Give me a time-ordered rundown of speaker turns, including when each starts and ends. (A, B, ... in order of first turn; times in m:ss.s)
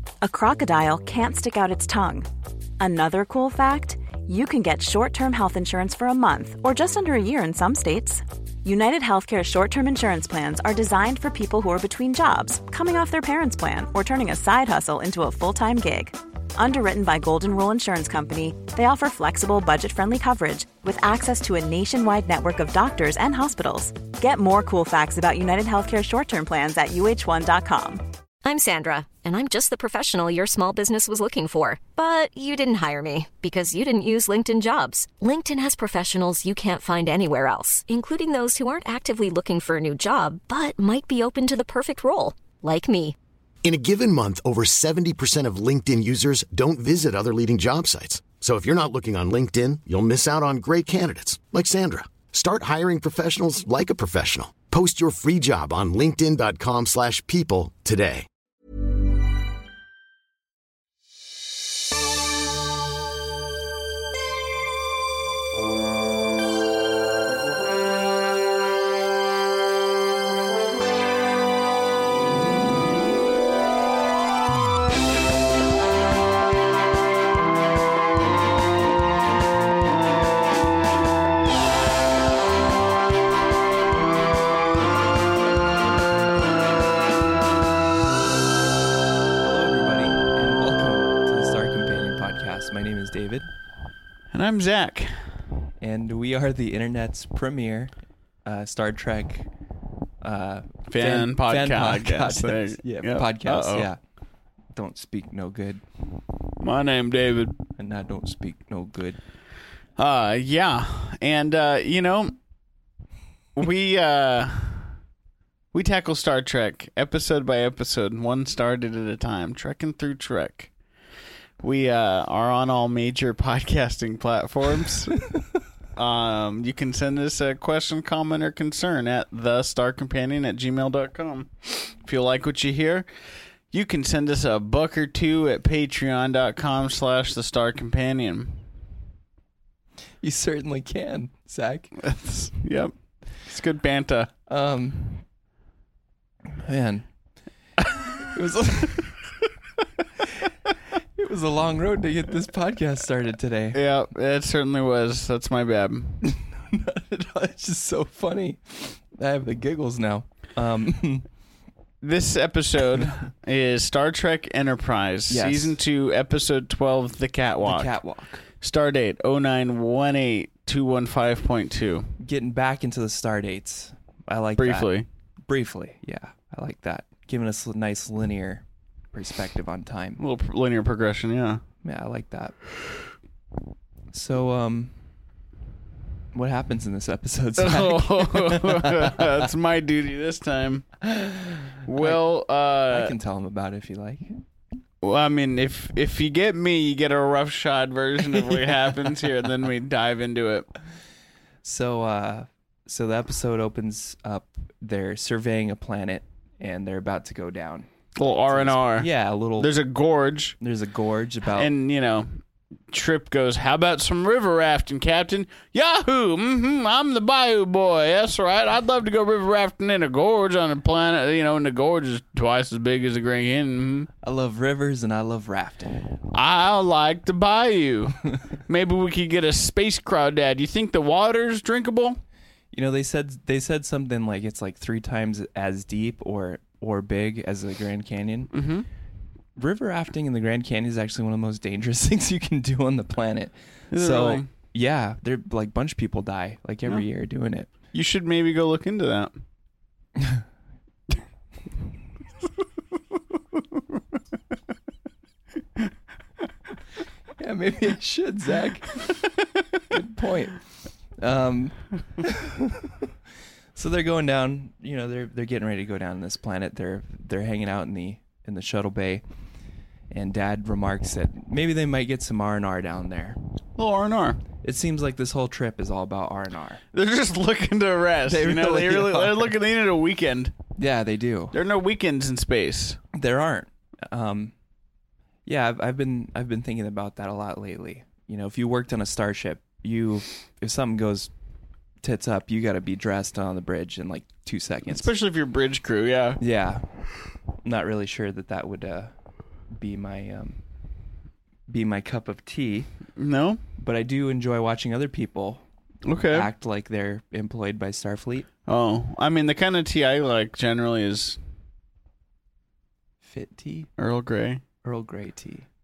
0:00.2-0:02.3 A
0:02.8-0:28.0 A
0:28.4-0:43.1 B
0:43.6-0:58.3 C
1:29.4-1:33.5 D
1:34.3-1:35.2 E
1:35.8-1:37.9 D
1:38.4-1:39.5 D
1:40.2-1:44.0 D
1:40.9-1:43.9 E
1:44.7-1:45.8 D
1:46.6-1:47.6 E
1:47.8-1:49.2 D
1:50.0-1:52.3 E
1:53.5-1:54.9 E
1:55.7-2:00.7 E
2:01.6-2:05.3 E
2:06.0-2:18.6 E
2:20.2-2:21.9 D
2:22.0-2:24.3 E
2:24.5-2:25.2 D
2:26.6-2:27.1 D
2:28.3-2:29.1 D
2:31.2-2:33.8 D
2:33.7-2:36.3 E
2:36.2-2:41.3 D
2:42.0-2:47.9 E
2:45.3-2:45.8 D
2:47.6-2:48.4 D
2:48.6-2:52.1 E
2:52.2-2:54.9 D
2:54.6-2:55.0 E
2:55.5-3:00.2 D
3:00.2-3:01.6 E
3:01.8-3:02.6 D
3:04.1-3:04.9 D
3:06.3-3:09.3 D
3:07.6-3:11.1 E
3:11.0-3:12.2 D
3:11.8-3:13.1 E
3:12.9-3:14.3 D
3:15.0-3:20.7 E
3:18.3-3:19.1 D
3:21.6-3:27.9 D
3:28.2-3:30.6 E
3:28.5-3:29.7 D
3:30.6-3:31.7 D
3:31.5-3:32.4 E
3:32.9-3:44.1 E
3:44.2-3:46.0 D
3:46.3-3:52.2 E
3:52.7-3:58.6 D
3:58.5-3:58.8 E
3:59.6-4:07.7 D
4:03.9-4:04.5 E
4:07.9-4:09.3 E
4:10.2-4:10.4 D
4:17.4-4:20.6 D
4:21.2-4:22.9 D
4:23.7-4:29.2 D
4:30.1-4:33.4 D
4:33.8-4:34.4 E
4:34.6-4:36.8 D
4:36.9-4:40.5 E
4:38.3-4:39.5 D
4:40.8-4:41.6 D
4:41.5-4:43.0 E
4:43.1-4:44.5 D
4:45.4-4:51.3 D
4:52.0-4:55.1 D
4:54.9-4:56.4 E
4:56.4-4:56.9 D
4:57.6-4:59.1 D
4:59.7-5:00.6 D
5:01.7-5:02.9 D
5:03.2-5:03.6 E
5:03.8-5:05.6 D
5:06.0-5:06.5 E
5:06.3-5:08.5 D
5:08.7-5:11.4 E
5:13.2-5:13.9 D
5:14.0-5:14.6 E
5:14.8-5:15.7 D